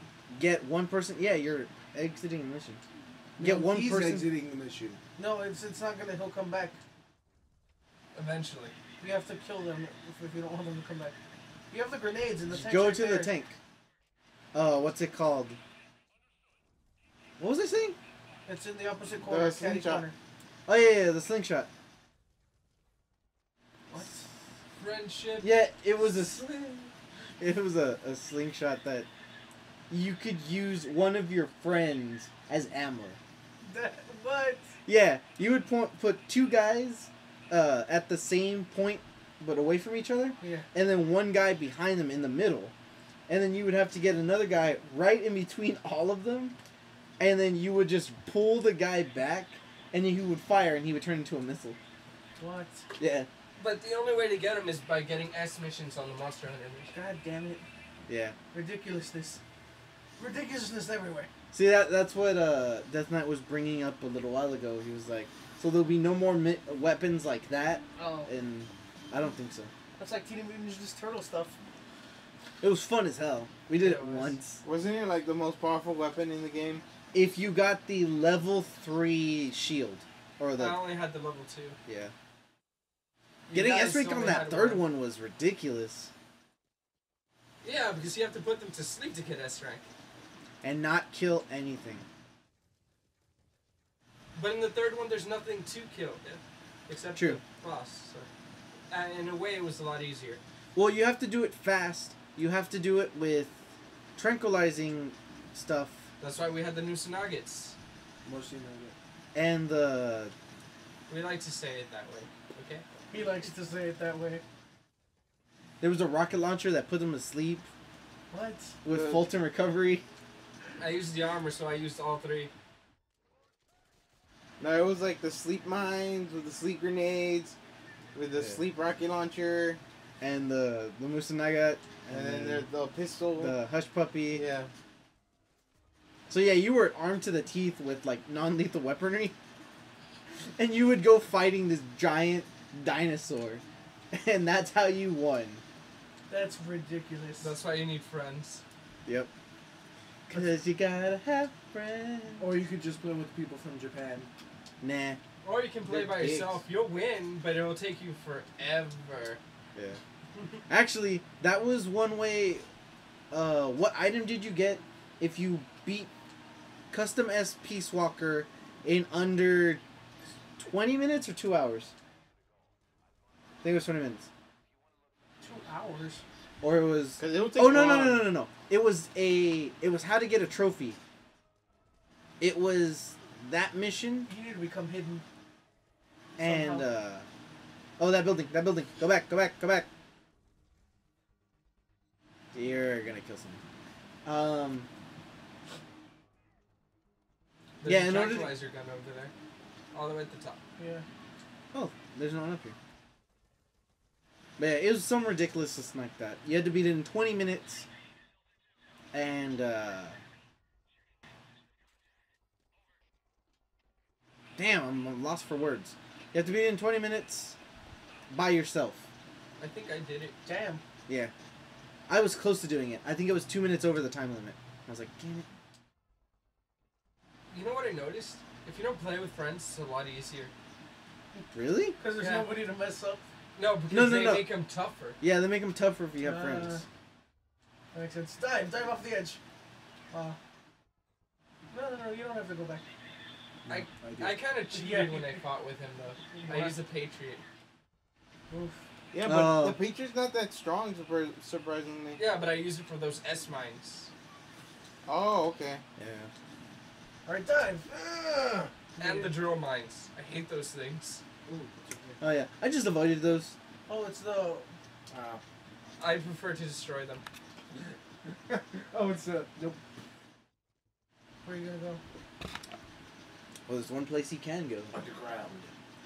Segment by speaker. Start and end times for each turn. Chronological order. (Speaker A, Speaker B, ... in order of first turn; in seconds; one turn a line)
Speaker A: 0.3-2.8
Speaker B: 3.4-5.0
Speaker A: 3.4-4.3
Speaker C: 5.2-6.8
Speaker D: 8.1-8.8
Speaker C: 9.0-11.1
Speaker C: 11.7-13.3
Speaker A: 12.5-13.6
Speaker A: 14.5-15.6
Speaker A: 17.4-17.9
Speaker C: 18.4-20.1
Speaker E: 19.1-20.1
Speaker A: 20.7-21.7
Speaker C: 23.9-24.2
Speaker D: 24.7-26.9
Speaker A: 25.4-26.4
Speaker A: 27.4-29.1
Speaker A: 29.9-33.2
Speaker C: 33.6-34.7
Speaker A: 34.9-42.7
Speaker C: 40.4-40.7
Speaker A: 43.3-46.5
Speaker A: 47.2-51.8
Speaker C: 52.4-52.9
Speaker A: 53.0-53.3
Speaker D: 53.6-56.9
Speaker C: 56.9-57.6
Speaker A: 58.1-58.4
Speaker C: 58.5-59.4
Speaker C: 60.2-61.3
Speaker A: 61.5-69.7
Speaker C: 68.0-68.3
Speaker C: 70.0-71.5
Speaker A: 72.6-74.6
Speaker D: 73.8-74.4
Speaker E: 74.6-76.8
Speaker A: 77.1-80.8
Speaker D: 80.5-81.8
Speaker A: 81.9-82.1
Speaker D: 83.5-84.9
Speaker A: 83.5-86.1
Speaker D: 87.6-89.9
Speaker A: 90.6-92.0
Speaker D: 94.3-98.3
Speaker A: 97.1-97.4
Speaker D: 98.9-100.4
Speaker A: 100.7-103.6
Speaker A: 104.2-106.0
Speaker D: 106.2-107.8
Speaker B: 108.2-108.9
Speaker A: 109.3-110.3
Speaker D: 111.1-112.8
Speaker C: 113.1-114.4
Speaker A: 115.8-117.7
Speaker C: 118.3-118.7
Speaker A: 118.8-120.0
Speaker E: 118.9-119.3
Speaker D: 120.8-122.5
Speaker E: 124.6-127.5
Speaker E: 128.1-129.8
Speaker A: 130.2-132.7
Speaker E: 132.1-133.6
Speaker A: 133.4-134.4
Speaker E: 134.3-134.7
Speaker A: 136.3-139.3
Speaker A: 140.6-145.6
Speaker C: 146.3-147.6
Speaker D: 147.4-148.6
Speaker A: 150.3-152.6
Speaker B: 152.4-154.3
Speaker A: 154.8-155.2
Speaker D: 155.4-159.4
Speaker A: 155.8-156.6
Speaker A: 160.7-162.7
Speaker A: 163.3-166.1
Speaker A: 166.9-169.8
Speaker A: 170.6-171.9
Speaker A: 173.6-174.3
Speaker C: 175.4-176.2
Speaker A: 176.6-181.0
Speaker E: 177.2-178.3
Speaker A: 182.4-184.3
Speaker C: 184.3-185.2
Speaker A: 186.4-187.3
Speaker C: 186.4-186.9
Speaker A: 188.0-189.9
Speaker A: 192.5-193.6
Speaker A: 194.2-194.9
Speaker D: 197.8-199.3
Speaker A: 197.8-198.6
Speaker D: 199.9-200.6
Speaker C: 200.8-201.0
Speaker A: 201.7-202.8
Speaker A: 204.6-207.8
Speaker A: 209.1-210.2
Speaker A: 214.6-217.6
Speaker A: 218.3-219.1
Speaker D: 219.6-220.4
Speaker C: 220.4-220.8
Speaker A: 222.1-225.4
Speaker D: 227.5-230.5
Speaker A: 231.5-232.0
Speaker C: 232.0-233.2
Speaker D: 232.2-232.5
Speaker D: 233.6-235.2
Speaker A: 233.9-234.5
Speaker A: 235.2-236.8
Speaker C: 236.2-236.8
Speaker C: 237.9-239.4
Speaker C: 240.1-240.4
Speaker C: 241.7-242.8
Speaker B: 243.7-244.4
Speaker D: 243.7-247.4
Speaker C: 244.7-245.4
Speaker C: 246.3-246.8
Speaker C: 248.5-248.8
Speaker E: 249.1-252.2
Speaker A: 249.2-249.8
Speaker D: 252.2-254.1
Speaker E: 255.1-255.8
Speaker A: 256.0-256.3
Speaker C: 257.2-257.9
Speaker B: 257.9-258.7
Speaker C: 259.0-259.3
Speaker D: 259.0-261.2
Speaker B: 261.5-262.2
Speaker A: 262.2-263.6
Speaker C: 263.9-264.7
Speaker B: 265.1-265.4
Speaker D: 266.0-267.2
Speaker B: 268.5-269.8
Speaker C: 271.4-272.0
Speaker A: 273.7-274.9
Speaker B: 274.9-275.7